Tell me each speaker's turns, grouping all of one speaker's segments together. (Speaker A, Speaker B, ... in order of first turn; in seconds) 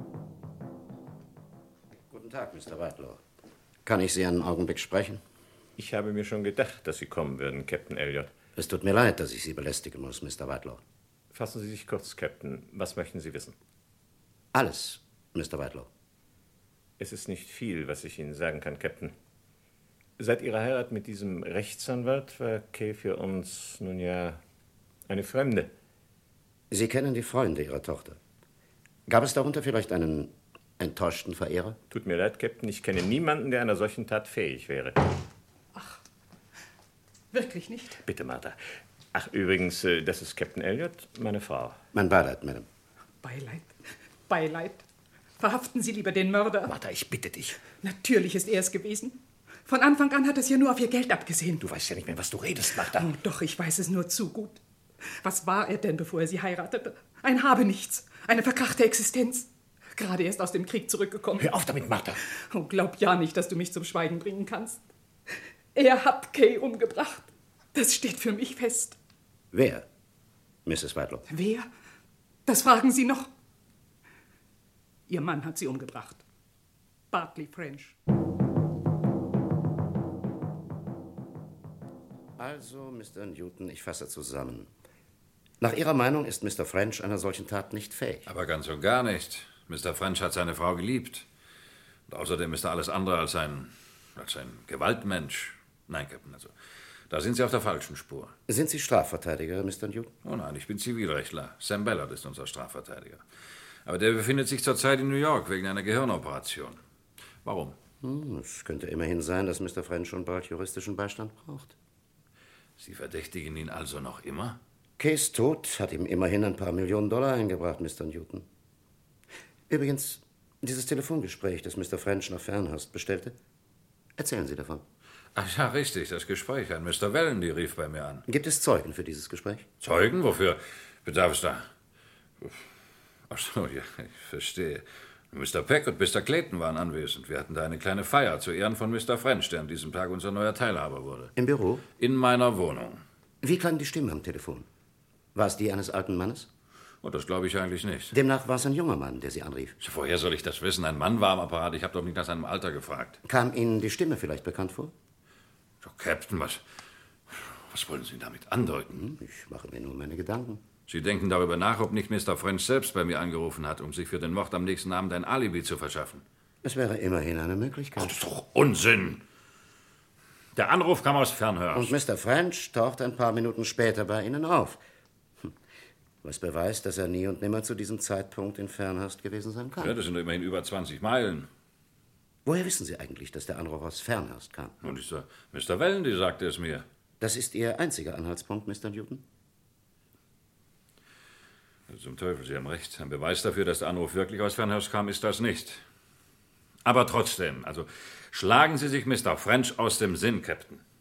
Speaker A: 2.1-3.2, 3.9-5.2, 8.6-10.8, 14.5-15.9, 26.7-28.2, 29.1-31.8, 41.9-42.7, 69.5-69.9, 70.7-71.3, 82.4-84.7, 85.6-88.3, 98.5-100.1, 108.0-111.8, 115.0-118.5, 119.7-123.4, 124.2-124.8, 128.3-129.7, 141.4-141.8, 143.4-144.7, 145.3-146.5, 148.1-149.8, 153.3-154.9, 158.9-160.6, 166.6-168.2, 171.7-174.8, 176.2-180.0, 182.4-184.8, 187.2-189.2
Speaker B: 5.8-8.3, 11.3-13.6, 17.0-19.1, 20.2-24.4, 25.1-25.7, 31.9-35.0, 38.0-38.6, 39.1-41.8
Speaker C: 35.7-36.0, 37.3-38.0, 43.2-43.7, 44.3-44.8, 45.4-46.8, 47.7-51.7, 52.6-54.6, 55.2-61.6, 62.5-64.8, 65.8-69.0, 71.3-71.7, 72.5-73.3, 75.1-76.2, 77.1-78.0
Speaker D: 88.3-91.3, 92.1-96.5, 97.1-98.3, 100.2-103.2, 103.8-106.8, 107.4-107.8, 112.8-114.6, 125.3-128.2, 129.8-131.7, 133.3-141.3, 142.0-143.0, 147.0-148.1, 149.8-153.2, 155.8-156.6, 157.3-159.0, 160.9-166.2, 168.0-169.2, 170.6-171.9, 179.8-181.5, 184.8-186.8, 191.9-195.8, 196.9-200.8